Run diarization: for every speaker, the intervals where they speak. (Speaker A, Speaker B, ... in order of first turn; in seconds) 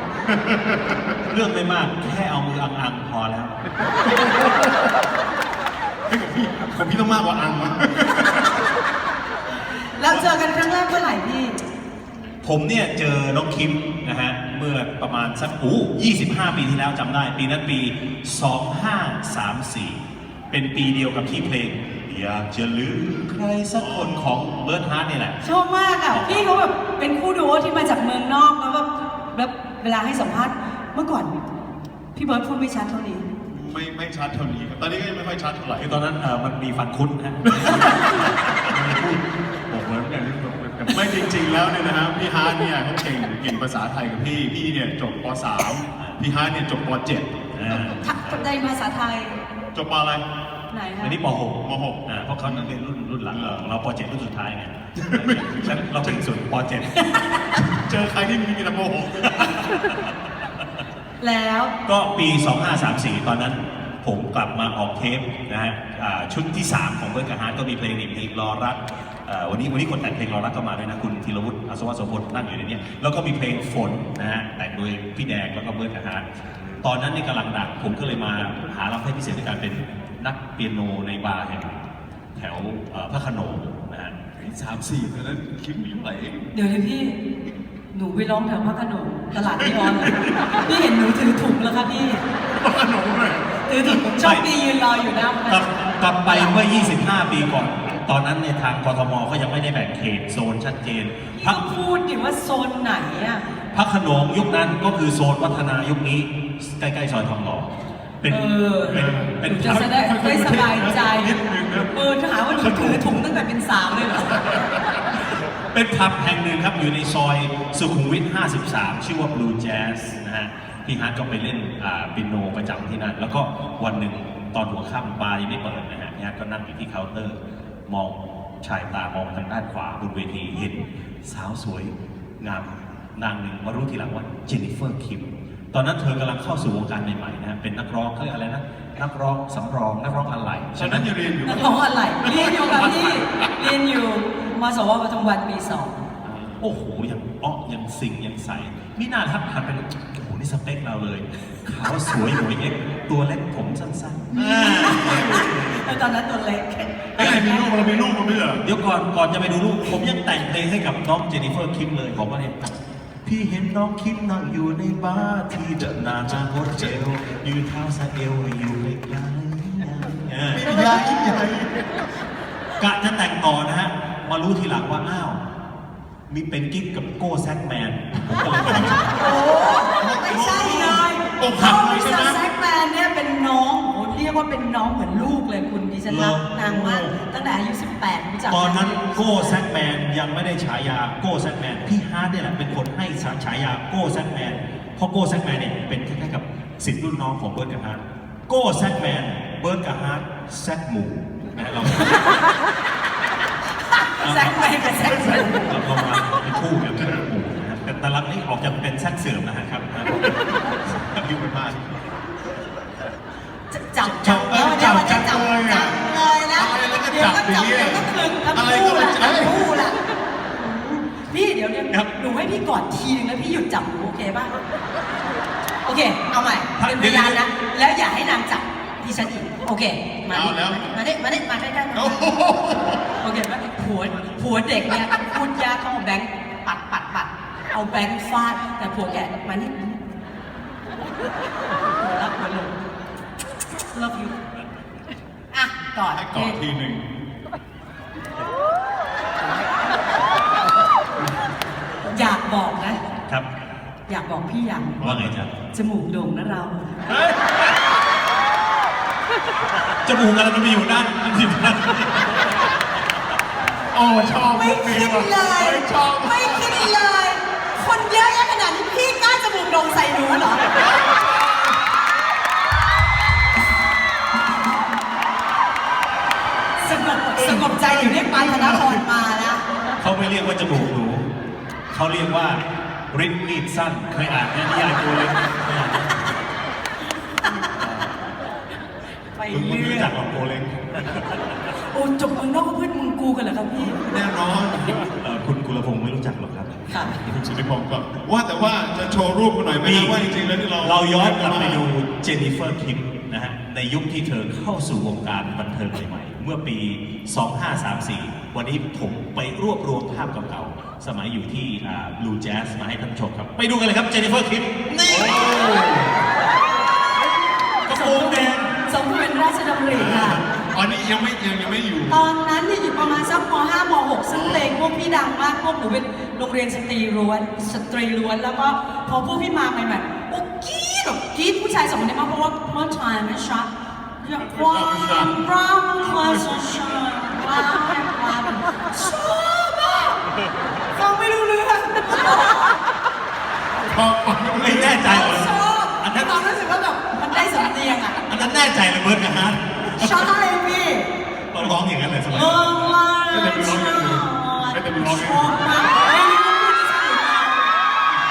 Speaker A: 0.3-1.1, 6.1-8.5, 23.7-24.3, 33.5-36.0, 37.6-38.0, 40.2-47.3, 49.7-50.2, 51.6-52.7, 53.3-53.6, 55.0-56.2, 57.6-59.6, 84.4-86.5, 89.6-90.6, 92.5-94.0, 108.9-111.9, 112.5-113.2, 140.8-143.5, 146.2-146.6, 154.3-155.7, 157.2-158.6, 170.5-171.8, 179.9-182.4, 205.0-205.7, 214.2-215.9, 216.5-219.7, 230.3-230.9, 231.9-233.0, 246.0-247.0, 255.0-255.3, 257.1-257.4, 263.9-266.9, 270.8-271.3, 277.4-279.0, 293.9-295.1, 297.2-301.8, 315.1-316.2, 319.9-322.2, 324.3-324.7, 334.4-335.3, 336.1-336.6, 343.8-345.1, 353.2-355.8
Speaker B: 1.3-3.5, 12.4-20.0, 20.5-25.4, 26.1-26.5, 35.8-41.0, 47.5-48.0, 51.0-57.0, 61.9-76.2, 76.8-84.2, 94.1-94.5, 95.5-101.7, 103.7-107.7, 108.2-110.0, 115.5-141.1, 146.6-155.5, 158.6-162.7, 163.2-170.9, 172.8-175.4, 176.3-179.3, 186.1-187.2, 188.5-202.3, 204.2-211.9, 214.1-214.6, 226.8-227.4, 255.0-255.5, 260.0-262.6, 280.0-281.3, 281.9-286.2, 287.8-288.1, 289.5-291.5, 294.9-297.2, 299.8-300.2, 300.8-315.6, 317.9-318.7, 344.6-346.5, 348.3-350.3, 351.5-353.0
Speaker C: 10.0-11.6, 25.4-31.3, 32.1-33.2, 48.0-49.4, 50.7-51.2, 61.2-61.7, 86.5-87.2, 87.9-92.2, 93.7-95.7, 96.3-96.5, 101.4-103.5, 108.3-111.3, 111.9-114.5, 141.4-146.0, 154.4-157.8, 179.2-189.6, 202.0-202.5, 203.8-205.5, 213.7-220.0, 220.6-224.5, 225.8-232.3, 233.2-240.0, 242.0-242.7, 243.9-244.4, 245.5-246.6, 252.1-253.0, 254.1-255.0, 255.7-257.1, 264.4-270.8, 276.8-279.6, 287.4-287.7, 289.4-290.1, 291.7-294.0, 296.9-297.2, 317.9-320.4, 322.1-333.7, 334.2-340.2, 340.9-342.8, 345.0-348.2, 349.9-351.1, 352.3-357.6